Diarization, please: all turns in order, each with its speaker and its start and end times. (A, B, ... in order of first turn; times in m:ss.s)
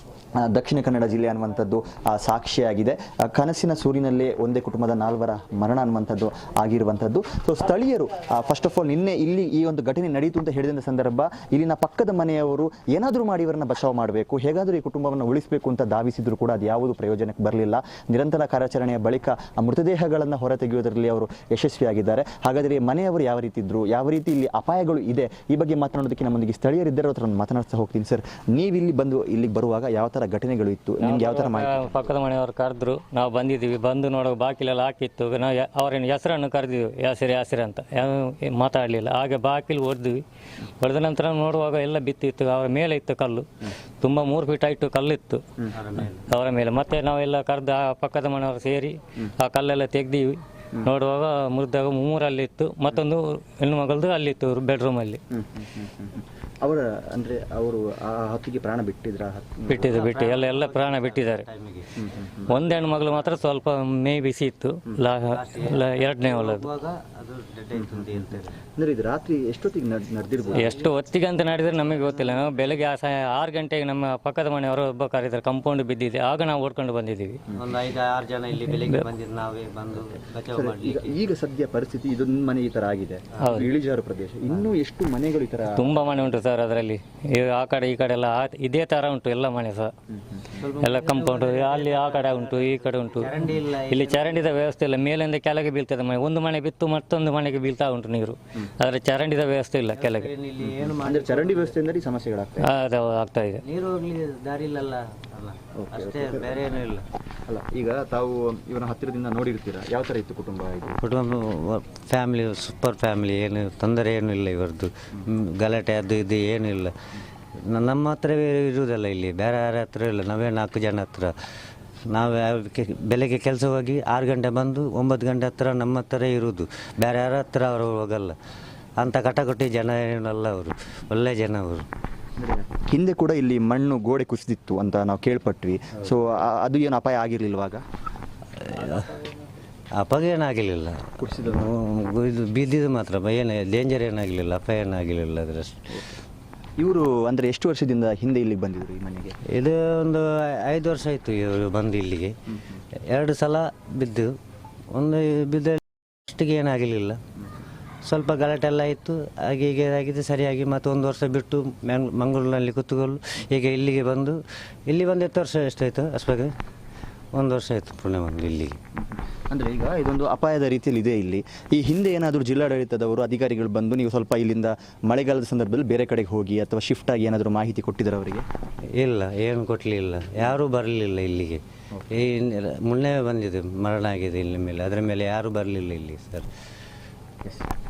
0:00.4-0:31.8 A
0:31.0-0:40.2 B
0:40.8-0:43.5 B
0:44.0-0:45.4 B
0:45.7-0:46.3 C
0:46.3-0:55.2 B
0:55.3-1:00.0 A
0:59.7-1:01.5 B
0:59.8-1:01.9 C
1:02.0-1:02.5 A
1:02.5-1:03.2 C
1:02.5-1:06.7 B
1:05.3-1:08.6 C
1:07.7-1:10.7 A
1:10.4-1:10.9 C
1:10.5-1:17.4 B
1:11.7-1:12.8 C
1:17.6-1:21.2 C
1:18.7-1:19.0 B
1:20.5-1:26.0 A
1:23.4-1:23.6 C
1:25.8-1:29.9 B
1:30.1-1:30.6 A
1:30.6-1:34.6 C
1:30.8-1:40.3 B
1:39.9-1:41.7 C
1:40.8-1:42.7 A
1:42.6-1:43.6 B
1:43.6-1:47.0 C
1:45.8-1:46.6 A
1:47.5-1:51.0 A
1:51.0-1:56.9 C
1:57.7-2:01.3 C
2:02.1-2:08.4 C
2:09.0-2:11.8 C
2:12.4-2:17.8 A
2:18.6-2:19.2 C
2:20.0-2:25.9 C
2:21.2-2:21.7 A
2:25.9-2:26.2 A
2:26.8-2:29.4 A
2:29.5-2:32.3 C
2:32.5-2:32.8 A
2:33.1-2:34.3 C
2:34.9-2:37.2 C
2:38.0-2:46.5 C
2:47.3-2:48.8 C
2:49.0-2:58.4 A
2:59.0-3:06.5 C